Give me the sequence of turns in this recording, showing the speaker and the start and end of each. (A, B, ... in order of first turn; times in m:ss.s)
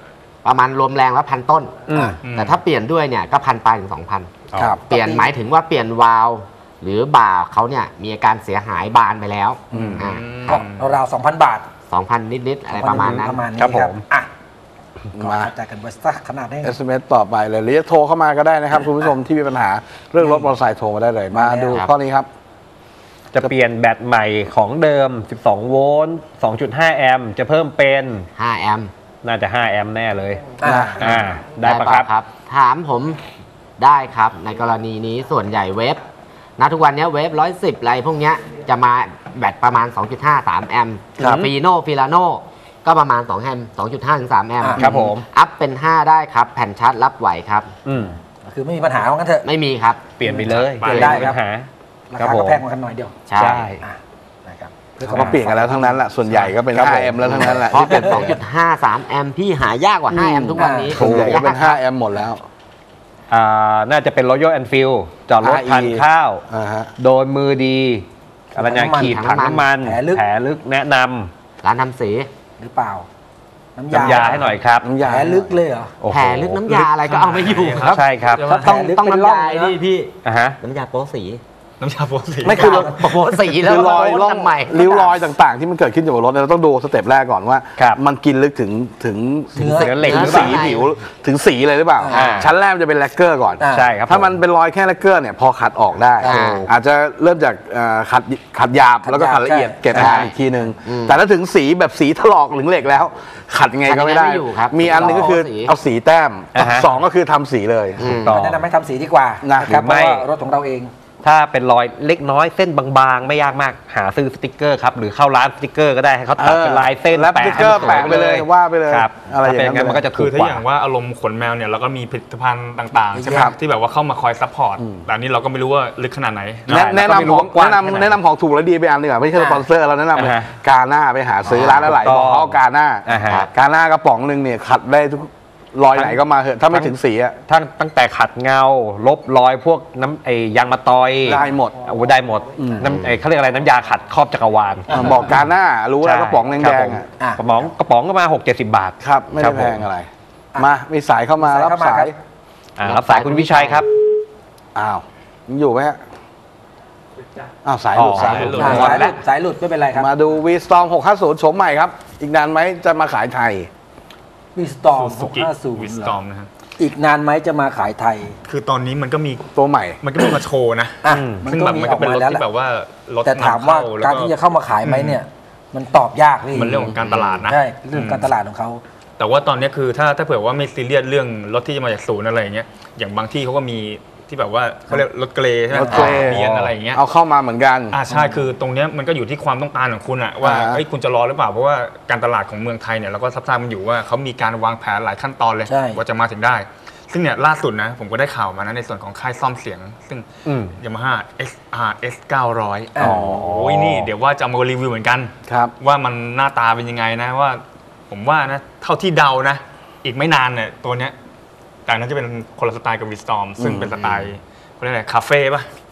0:00.4-0:10.2 A
0:01.9-0:02.2 B
0:02.2-0:02.6 C
0:04.5-0:04.8 B
0:04.8-0:05.3 D
0:09.7-0:10.0 E
0:09.8-0:11.0 C
0:10.4-0:11.7 D
0:11.9-0:13.5 A
0:12.7-0:14.3 D
0:13.0-0:14.0 B
0:15.1-0:15.5 E
0:15.2-0:16.7 D
0:16.6-0:22.3 E
0:20.2-0:20.5 D
0:21.3-0:21.8 D
0:23.3-0:28.3 B
0:28.4-0:28.9 A
0:29.2-0:30.4 B
0:30.6-0:31.0 D
0:30.6-0:31.1 E
0:31.0-0:32.1 B
0:31.6-0:33.2 A
0:33.8-0:36.0 A
0:36.6-0:47.7 A
0:41.2-0:41.5 E
0:44.6-0:44.9 D
0:44.8-0:45.2 B
0:47.8-0:48.2 B
0:48.3-0:49.5 D
0:49.4-0:50.1 A
0:50.2-0:52.6 B
0:50.2-0:51.4 D
0:50.6-0:51.3 C
0:50.8-0:51.3 A
0:52.1-0:53.1 D
0:53.3-0:53.7 A
0:53.4-0:53.8 B
0:53.8-0:56.5 D
0:55.0-0:58.4 E
0:56.7-0:57.2 B
0:57.2-0:58.3 D
0:57.3-1:01.8 A
1:00.1-1:02.4 E
1:00.5-1:01.1 D
1:00.9-1:01.4 B
1:03.3-1:06.4 B
1:05.4-1:06.9 E
1:07.0-1:11.3 B
1:08.5-1:09.2 D
1:08.9-1:09.7 A
1:09.8-1:10.2 D
1:11.6-1:12.3 A
1:12.6-1:13.1 D
1:13.8-1:14.5 D
1:13.9-1:14.9 B
1:14.0-1:14.6 C
1:14.8-1:15.6 E
1:15.0-1:15.9 D
1:16.0-1:16.7 B
1:16.1-1:21.4 A
1:16.7-1:18.9 C
1:17.8-1:18.5 B
1:18.4-1:19.8 D
1:20.2-1:20.6 B
1:21.8-1:22.6 C
1:22.4-1:23.0 E
1:22.4-1:25.3 A
1:22.5-1:23.1 D
1:23.6-1:48.1 E
1:29.5-1:30.7 D
1:29.6-1:30.6 B
1:30.0-1:30.9 A
1:32.0-1:32.4 D
1:32.1-1:32.5 B
1:32.1-1:32.4 A
1:33.6-1:33.9 D
1:33.7-1:34.3 B
1:36.2-1:36.7 D
1:36.2-1:36.7 A
1:39.0-1:40.3 D
1:39.9-1:40.3 A
1:40.8-1:41.2 A
1:43.8-1:45.8 A
1:46.6-1:46.9 B
1:48.0-1:48.6 B
1:48.0-1:48.3 A
1:48.3-1:50.9 D
1:49.4-1:49.8 E
1:49.6-1:50.3 B
1:51.2-2:00.6 B
1:56.4-2:00.1 E
1:57.7-1:58.1 A
2:00.1-2:07.0 C
2:03.1-2:03.5 D
2:03.3-2:03.6 E
2:04.8-2:05.0 E
2:06.7-2:17.4 E
2:06.7-2:08.2 B
2:09.4-2:09.7 D
2:10.2-2:10.5 B
2:11.4-2:11.9 A
2:11.6-2:13.5 B
2:13.2-2:13.5 A
2:15.9-2:16.2 B
2:17.5-2:25.0 B
2:21.2-2:21.8 E
2:22.5-2:22.9 E
2:22.9-2:23.1 A
2:24.9-2:27.1 E
2:24.9-2:25.3 D
2:26.0-2:29.8 B
2:27.2-2:27.4 D
2:29.0-2:32.1 E
2:31.4-2:32.1 D
2:32.8-2:33.9 B
2:32.9-2:33.8 D
2:33.0-2:33.8 A
2:34.7-2:36.0 E
2:37.6-2:39.1 E
2:37.9-2:38.7 B
2:38.1-2:39.2 C
2:38.5-2:40.1 D
2:39.9-2:43.7 E
2:44.5-2:46.2 D
2:44.9-2:46.5 C
2:46.8-2:48.4 D
2:48.4-2:55.2 C
2:49.6-2:50.0 E
2:51.0-2:52.4 D
2:51.1-2:51.4 B
2:53.2-2:58.8 D
2:56.5-2:58.3 C
2:59.2-3:07.0 C
3:05.7-3:08.0 E
3:05.9-3:06.3 A
3:07.9-3:31.1 C
3:10.4-3:10.8 E
3:15.6-3:16.0 D
3:20.4-3:20.7 B
3:23.0-3:24.1 B
3:23.0-3:23.3 E
3:25.5-3:25.7 E
3:31.8-3:35.7 C
3:33.6-3:34.3 E